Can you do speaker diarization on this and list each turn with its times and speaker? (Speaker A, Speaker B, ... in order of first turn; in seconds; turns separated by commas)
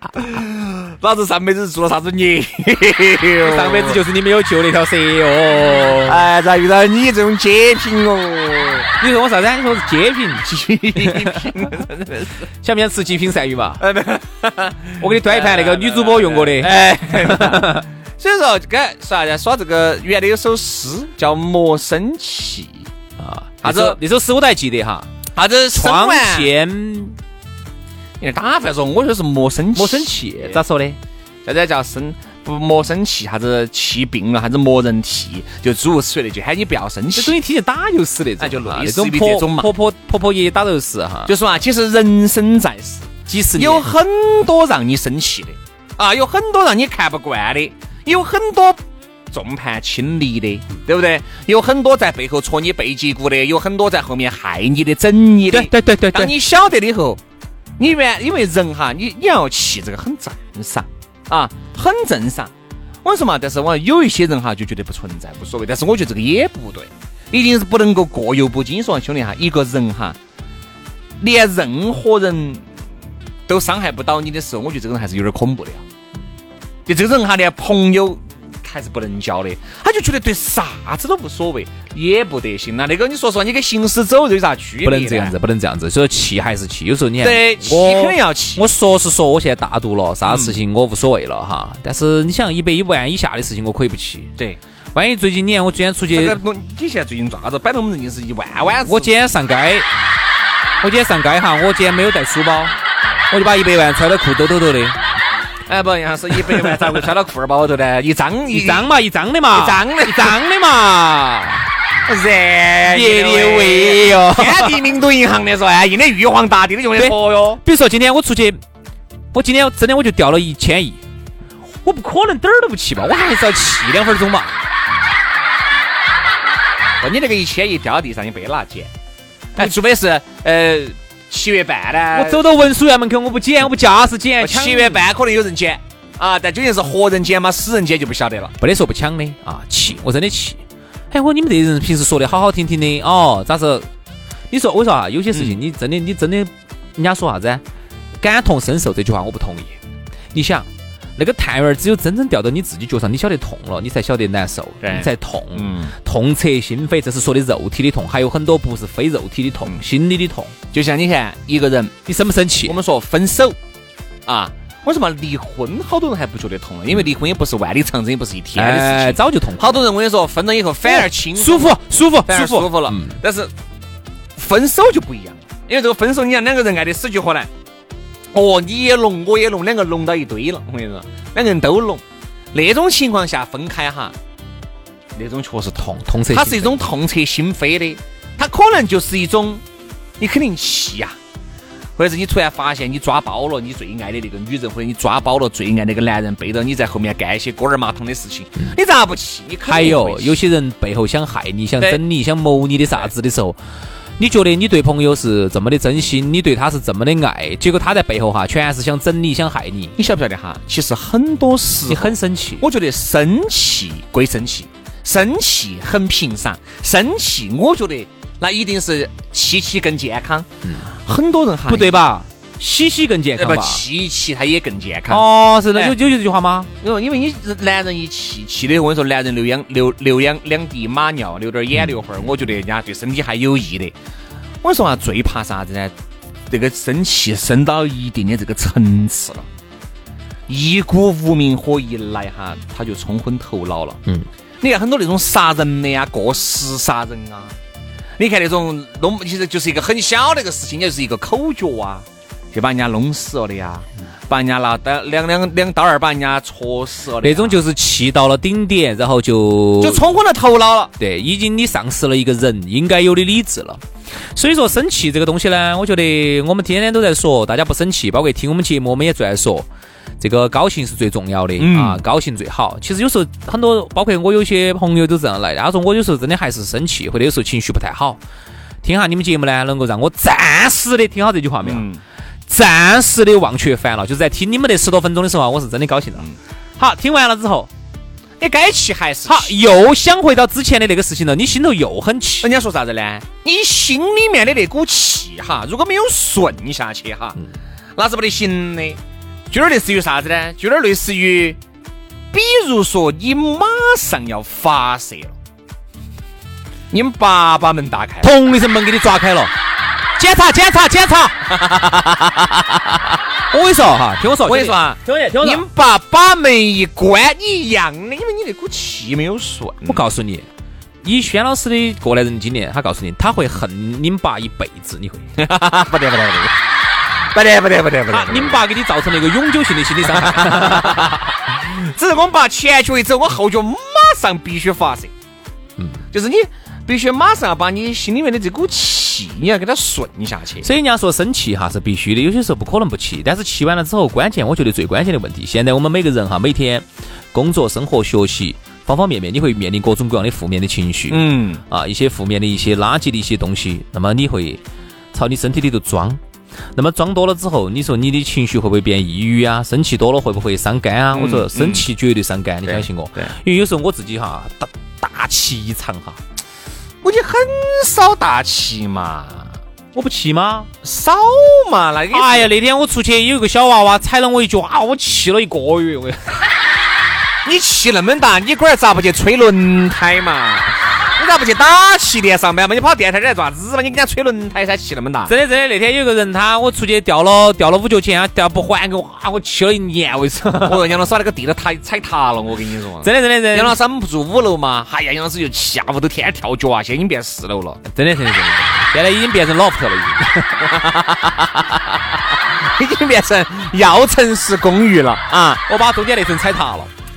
Speaker A: 0.2-4.0, Speaker B: 3.4-6.2, Speaker A: 6.0-8.9, Speaker B: 9.0-11.7, Speaker A: 10.4-12.3, Speaker B: 12.6-13.9, Speaker A: 13.8-22.9, Speaker B: 15.0-17.8, Speaker B: 23.2-25.1, Speaker A: 23.6-24.0, Speaker A: 25.4-26.5, Speaker B: 25.7-27.2, Speaker A: 28.2-30.6, Speaker B: 29.7-31.0, Speaker A: 31.4-37.4, Speaker B: 37.2-41.3, Speaker A: 38.4-39.7, Speaker A: 41.3-48.8, Speaker B: 43.3-43.9, Speaker A: 49.3-57.2, Speaker B: 55.5-56.3, Speaker A: 57.8-62.5, Speaker A: 63.0-70.2, Speaker A: 71.2-72.7, Speaker A: 73.5-75.8, Speaker A: 76.9-85.4, Speaker B: 84.8-94.3, Speaker A: 87.2-88.6, Speaker A: 90.2-90.6, Speaker B: 95.0-96.4, Speaker A: 96.1-99.1, Speaker B: 98.8-99.9, Speaker B: 100.8-102.8, Speaker B: 103.3-105.0, Speaker A: 105.7-108.9, Speaker B: 108.5-111.6, Speaker A: 109.5-110.4, Speaker A: 112.1-117.6, Speaker B: 112.8-114.8, Speaker B: 117.0-118.6, Speaker B: 119.3-121.0, Speaker B: 121.8-124.5, Speaker A: 127.0-128.9, Speaker A: 129.6-132.4, Speaker B: 132.1-135.1, Speaker A: 134.4-138.5, Speaker B: 138.6-143.9, Speaker B: 144.5-147.6, Speaker A: 145.3-145.6, Speaker B: 148.2-149.8, Speaker B: 150.3-160.5, Speaker A: 154.8-155.9, Speaker A: 160.7-161.9, Speaker B: 162.1-162.8, Speaker A: 162.7-163.6, Speaker A: 164.3-173.5, Speaker B: 168.6-169.9, Speaker B: 170.8-173.2, Speaker A: 174.4-177.5, Speaker A: 178.3-182.0, Speaker A: 182.5-184.2, Speaker A: 185.2-189.6, Speaker B: 185.8-186.9, Speaker A: 190.2-191.2, Speaker A: 192.0-200.4, Speaker B: 199.7-203.6, Speaker B: 204.2-210.0, Speaker A: 210.0-221.9, Speaker B: 211.9-212.7, Speaker B: 221.7-223.8, Speaker A: 223.4-226.0, Speaker B: 225.1-226.7, Speaker A: 226.8-233.9, Speaker A: 234.6-235.9, Speaker A: 236.5-239.5, Speaker A: 240.5-244.0, Speaker A: 244.6-247.6, Speaker A: 248.2-257.6, Speaker B: 257.2-260.1, Speaker A: 259.8-260.9, Speaker B: 261.0-263.8, Speaker B: 264.3-269.7, Speaker B: 270.2-278.2, Speaker A: 271.6-272.0, Speaker B: 278.8-281.9, Speaker A: 281.6-282.0, Speaker B: 282.5-287.7, Speaker A: 288.4-289.6, Speaker B: 289.3-292.5, Speaker A: 292.4-297.4, Speaker A: 298.0-299.0, Speaker A: 299.5-301.6, Speaker A: 302.3-305.4, Speaker A: 306.9-308.3, Speaker B: 308.2-309.5, Speaker B: 310.2-311.4, Speaker B: 313.5-315.6, Speaker A: 314.4-320.0, Speaker B: 319.9-320.5, Speaker B: 321.0-325.3, Speaker A: 325.4-326.5, Speaker A: 327.3-328.6, Speaker B: 328.1-331.2, Speaker A: 330.2-335.1, Speaker B: 335.8-336.0, Speaker A: 336.1-340.7, Speaker B: 340.6-354.6, Speaker A: 351.1-351.6, Speaker B: 355.1-356.2, Speaker B: 356.8-366.2, Speaker A: 361.1-361.9, Speaker A: 362.6-363.3, Speaker A: 367.0-369.6, Speaker B: 369.9-370.7, Speaker A: 370.8-372.5, Speaker B: 372.1-376.4, Speaker A: 377.4-385.4, Speaker B: 385.3-390.9, Speaker A: 390.5-397.8, Speaker B: 393.0-393.8, Speaker B: 397.8-400.7, Speaker A: 400.6-401.6, Speaker A: 402.4-405.6, Speaker B: 405.6-406.9